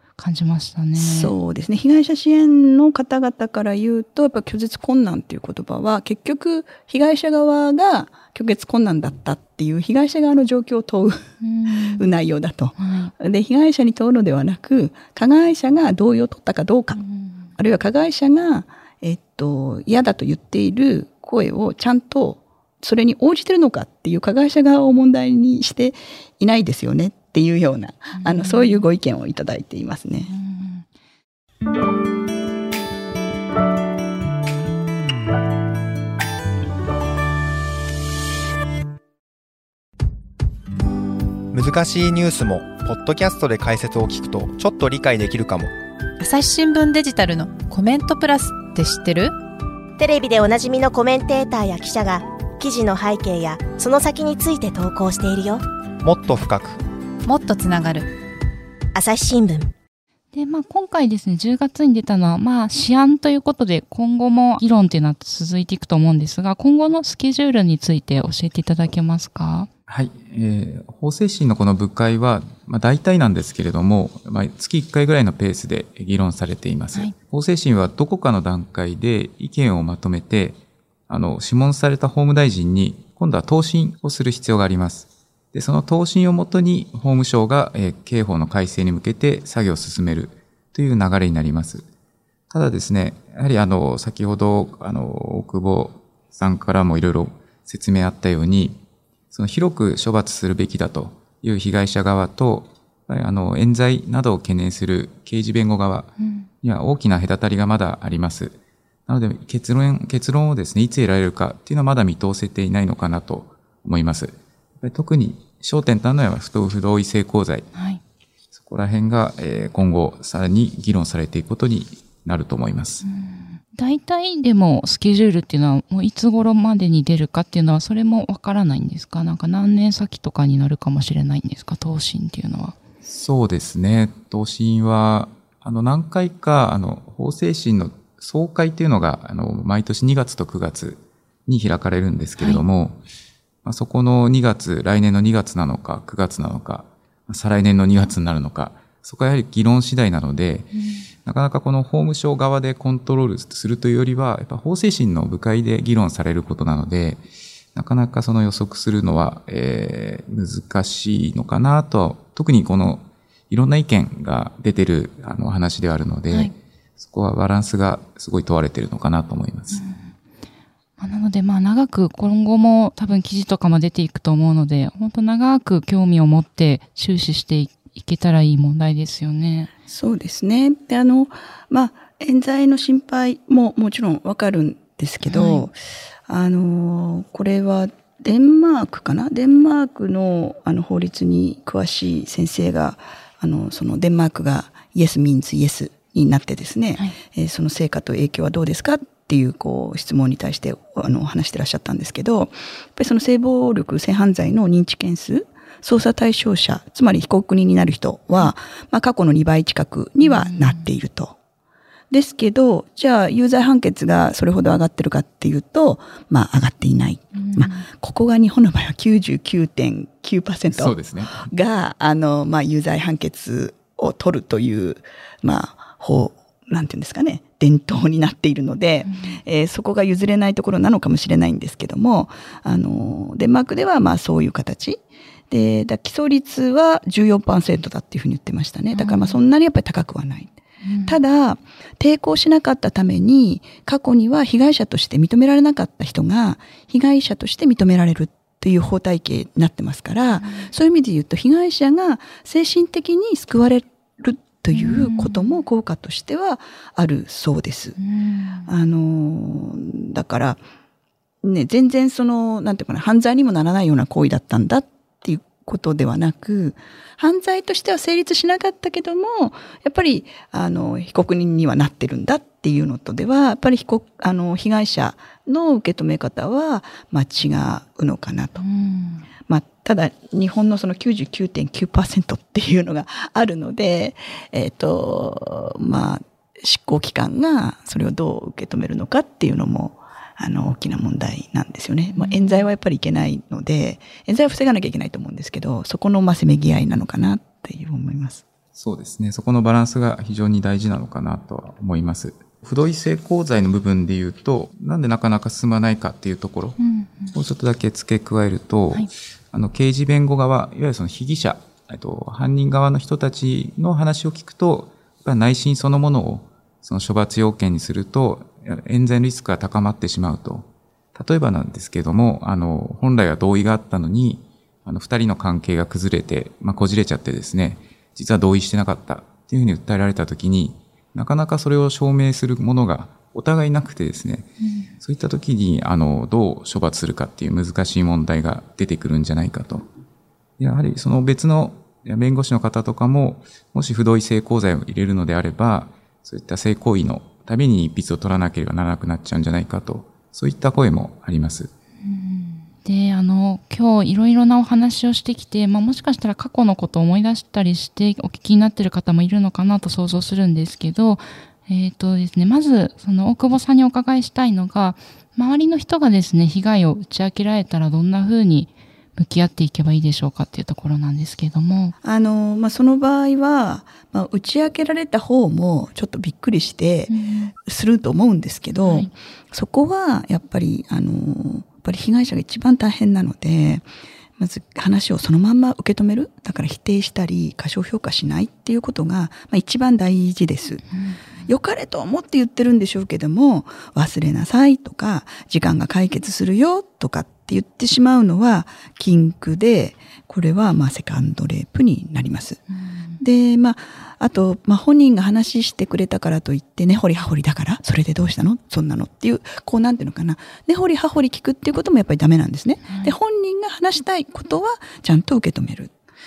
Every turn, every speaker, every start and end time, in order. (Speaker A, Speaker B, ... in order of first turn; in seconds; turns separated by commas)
Speaker A: 0.2-1.3, Speaker B: 0.9-17.0, Speaker A: 11.4-12.1, Speaker A: 12.8-13.1, Speaker A: 16.9-17.5, Speaker B: 17.6-30.3, Speaker A: 28.1-28.8, Speaker A: 30.3-30.9, Speaker C: 41.5-45.7, Speaker D: 46.2-49.3, Speaker E: 50.0-55.6, Speaker C: 56.0-56.8, Speaker D: 57.2-58.1, Speaker E: 58.9-59.7, Speaker A: 60.3-69.7, Speaker F: 69.9-80.6, Speaker F: 81.1-91.8, Speaker F: 92.5-98.8, Speaker F: 99.3-117.7, Speaker A: 106.2-106.5, Speaker A: 117.7-118.0, Speaker F: 118.5-123.0, Speaker A: 123.0-132.8, Speaker F: 133.0-143.0, Speaker F: 143.6-150.7, Speaker A: 150.7-151.1, Speaker F: 151.2-157.2, Speaker F: 157.7-169.8, Speaker A: 169.7-170.1, Speaker A: 171.0-179.7, Speaker B: 179.9-185.7, Speaker A: 185.2-185.7, Speaker B: 186.3-211.3, Speaker A: 210.2-210.9, Speaker B: 212.1-240.5, Speaker A: 217.3-217.9, Speaker F: 220.7-221.4, Speaker A: 229.0-229.4, Speaker A: 238.9-239.4, Speaker A: 240.8-241.2, Speaker B: 241.0-258.0, Speaker A: 250.3-250.7, Speaker A: 254.7-255.5, Speaker A: 258.0-258.7, Speaker B: 258.6-260.6, Speaker B: 261.4-278.6, Speaker A: 278.6-279.2, Speaker B: 279.5-298.4, Speaker A: 292.1-292.6, Speaker F: 298.7-306.8, Speaker A: 306.8-307.3, Speaker F: 307.3-334.5, Speaker A: 334.6-334.9, Speaker F: 335.0-339.9, Speaker F: 340.6-351.7, Speaker A: 352.0-371.9, Speaker B: 372.0-383.9, Speaker A: 377.1-377.5, Speaker A: 378.8-379.1, Speaker B: 384.4-390.8, Speaker A: 390.9-391.2, Speaker B: 391.4-402.6, Speaker A: 402.7-403.2, Speaker B: 403.2-415.9, Speaker A: 412.9-413.1